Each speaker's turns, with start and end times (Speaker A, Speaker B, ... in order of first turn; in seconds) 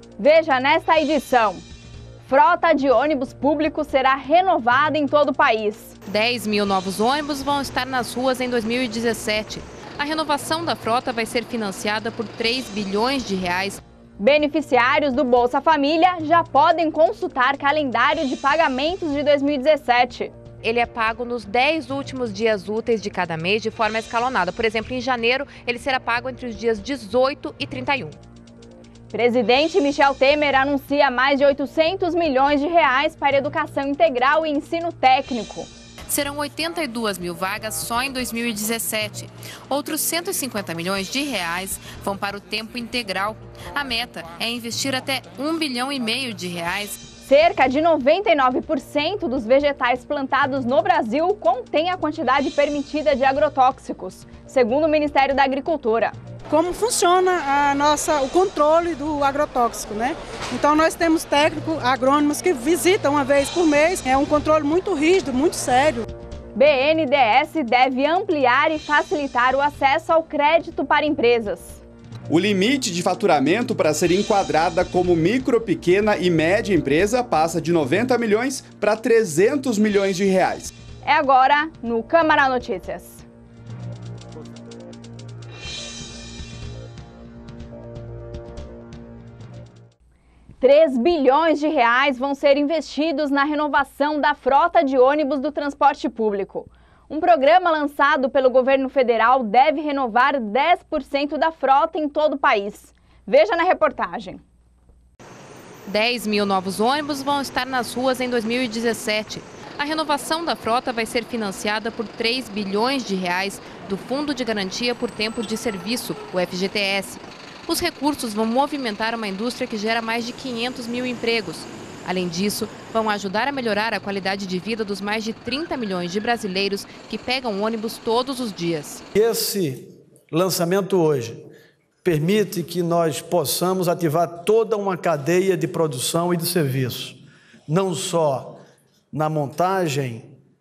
Speaker A: 0.2-1.6, 2.2-6.0, 14.2-20.3, 29.1-35.7, 47.2-56.1, 66.5-71.8, 81.0-83.2, 90.6-104.4
Speaker B: 6.1-13.8, 20.6-28.2, 36.1-47.0, 105.9-129.0
Speaker C: 56.5-66.0
Speaker D: 72.3-80.7
Speaker E: 129.1-131.4, 132.0-138.6, 139.1-140.3